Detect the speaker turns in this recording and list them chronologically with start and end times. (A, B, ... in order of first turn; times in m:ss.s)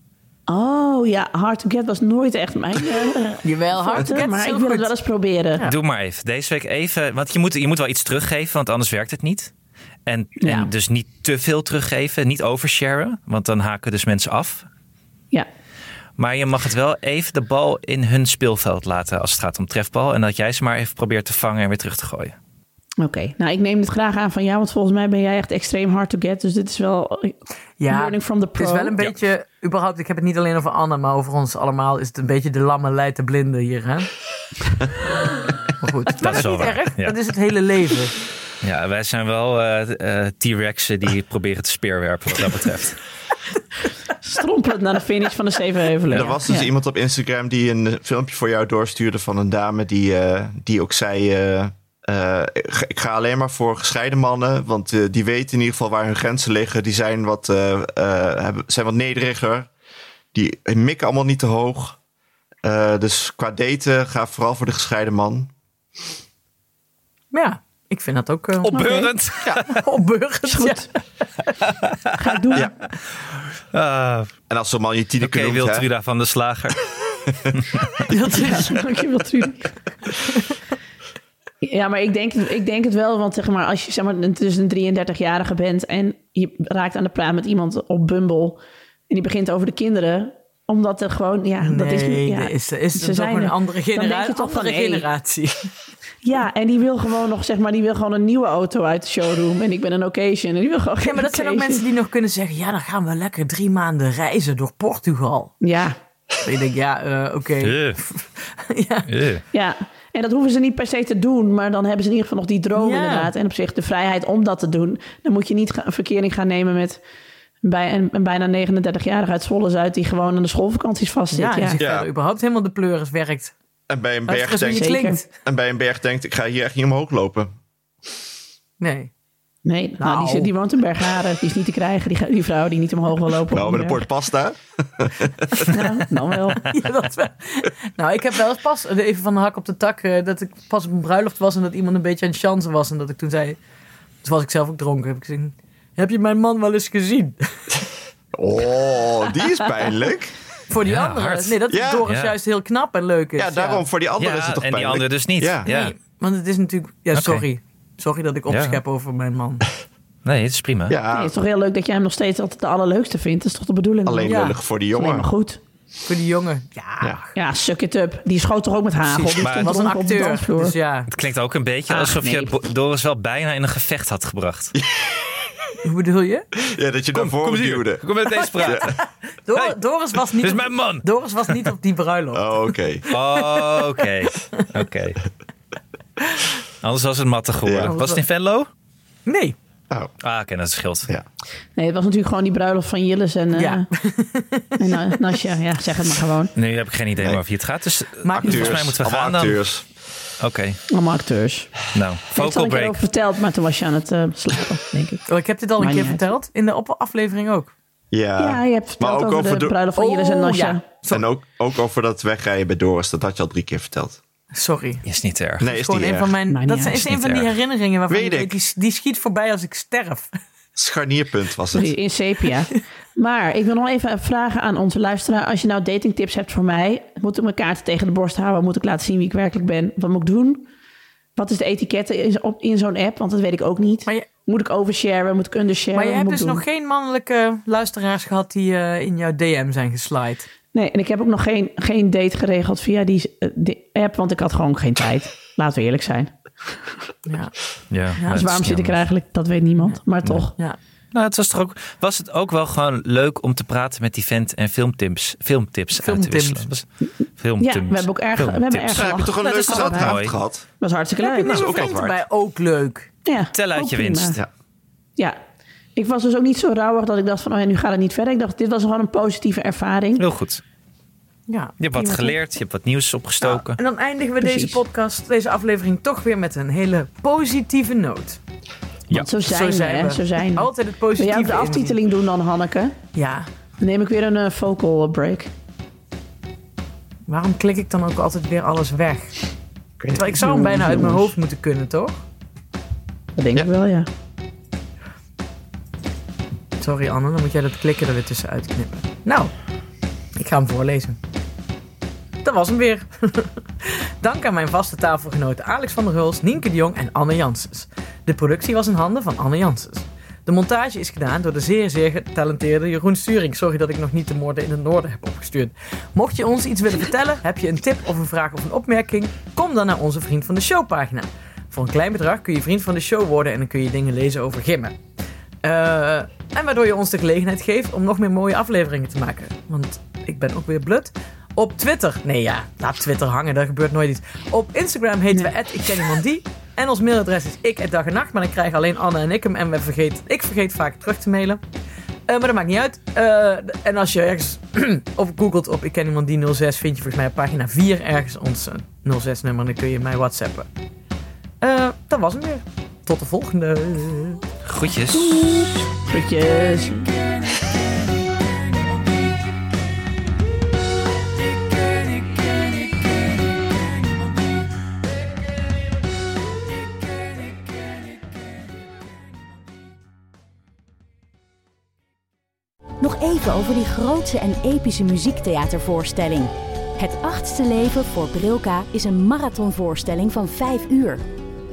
0:00.5-0:05.6 A
0:03.4-0:04.9 B
0:05.6-0:09.5 C
0:10.0-0:14.7 C
0:10.4-0:10.7 A
0:16.2-0:22.3 C
0:23.0-0:28.9 A
0:27.8-0:34.1 B
0:35.7-0:38.1 B
0:36.2-0:37.1 C
0:38.6-0:43.0 C
0:44.2-0:46.7 A
0:46.1-0:46.4 C
0:46.1-0:59.7 D
1:00.3-1:02.0 D
1:02.6-1:05.5 D
1:07.3-1:08.8 B
1:08.6-1:09.8 C
1:08.7-1:09.1 A
1:09.6-1:11.5 B
1:10.5-1:10.9 A
1:12.2-1:12.7 A
1:13.7-1:14.3 C
1:14.5-1:15.9 D
1:15.2-1:16.8 C
1:17.6-1:17.9 C
1:18.1-1:18.8 B
1:18.3-1:19.7 A
1:21.6-1:35.1 A
1:31.6-1:35.7 B
1:36.2-1:41.8 A
1:41.0-1:45.5 B
1:45.6-1:46.0 A
1:46.4-1:49.1 B
1:47.6-1:48.0 C
1:49.1-1:49.4 C
1:49.5-1:57.0 A
1:52.7-1:53.3 B
1:57.6-2:01.8 A
2:01.3-2:03.5 B
2:01.8-2:02.1 D
2:03.9-2:07.5 D
2:04.3-2:05.3 B
2:04.7-2:05.2 A
2:08.8-2:09.1 B
2:09.6-2:14.0 A
2:10.0-2:10.5 B
2:13.5-2:15.7 D
2:15.7-2:16.7 A
2:16.6-2:23.6 B
2:24.2-2:27.8 B
2:28.3-2:30.3 D
2:30.7-2:33.8 B
2:30.8-2:31.6 C
2:31.7-2:32.0 D
2:32.0-2:32.3 C
2:33.4-2:35.7 D
2:34.2-2:35.9 C
2:35.6-2:39.6 B
2:37.1-2:37.4 C
2:38.5-2:38.8 C
2:40.2-2:41.0 C
2:40.9-2:41.3 D
2:41.1-2:45.6 A
2:44.0-2:45.3 D
2:44.2-2:44.6 B
2:46.0-2:47.3 B
2:47.3-2:50.7 A
2:49.0-2:51.1 B
2:49.4-2:49.9 C
2:51.1-2:54.7 C
2:51.9-2:52.6 A
2:54.8-2:55.5 D
2:55.8-2:56.5 B
2:56.7-2:58.0 D
2:57.1-2:58.9 C
2:58.4-3:04.7 B
2:58.6-2:58.9 D
3:00.4-3:01.7 C
3:02.3-3:03.0 D
3:03.1-3:05.2 C
3:06.8-3:08.7 C
3:07.6-3:07.9 D
3:07.8-3:08.2 B
3:09.3-3:09.6 B
3:10.2-3:11.1 C
3:11.8-3:13.9 A
3:13.6-3:15.1 B
3:14.8-3:16.5 A
3:16.6-3:19.8 C
3:18.2-3:18.8 B
3:18.4-3:19.8 D
3:20.4-3:20.8 C
3:20.9-3:21.8 A
3:21.9-3:23.0 C
3:22.3-3:25.3 A
3:25.3-3:27.7 B
3:25.8-3:26.2 A
3:28.1-3:29.8 D
3:28.4-3:30.8 A
3:29.9-3:31.3 B
3:31.1-3:34.2 D
3:34.5-3:35.0 B
3:35.0-3:35.7 C
3:35.6-3:36.3 D
3:35.6-3:40.4 B
3:36.5-3:37.1 A
3:36.9-3:37.5 C
3:38.1-3:38.6 D
3:40.8-3:42.0 D
3:41.7-3:50.7 A
3:51.4-3:56.6 A
3:55.9-4:00.5 B
4:00.7-4:07.0 A
4:07.3-4:07.5 B
4:07.9-4:09.0 C
4:08.2-4:08.4 B
4:08.3-4:10.6 A
4:11.1-4:16.9 C
4:16.0-4:16.7 B
4:17.4-4:20.4 C
4:17.6-4:20.2 A
4:18.9-4:20.6 D
4:20.8-4:21.7 A
4:21.2-4:23.1 B
4:21.5-4:22.1 D
4:21.6-4:22.1 C
4:23.3-4:24.4 A
4:23.5-4:24.4 C
4:26.0-4:30.2 A
4:30.2-4:30.6 C
4:31.5-4:32.2 B
4:31.8-4:33.8 C
4:32.0-4:32.3 A
4:33.4-4:38.4 B
4:34.4-4:34.8 A
4:39.1-4:42.9 A
4:39.4-4:42.0 B
4:43.1-4:43.5 B
4:43.8-4:45.5 A
4:47.3-4:49.4 B
4:50.0-4:50.2 D
4:50.1-4:52.2 B
4:50.3-4:51.2 A
4:53.4-4:54.1 A
4:56.8-4:59.5 B
5:00.4-5:01.2 B
5:02.4-5:25.0 B
5:25.6-5:41.6 B
5:42.3-5:50.7 B
5:51.6-5:54.4 B
5:54.6-5:55.7 C
5:55.1-5:57.1 A
6:13.0-6:21.2 E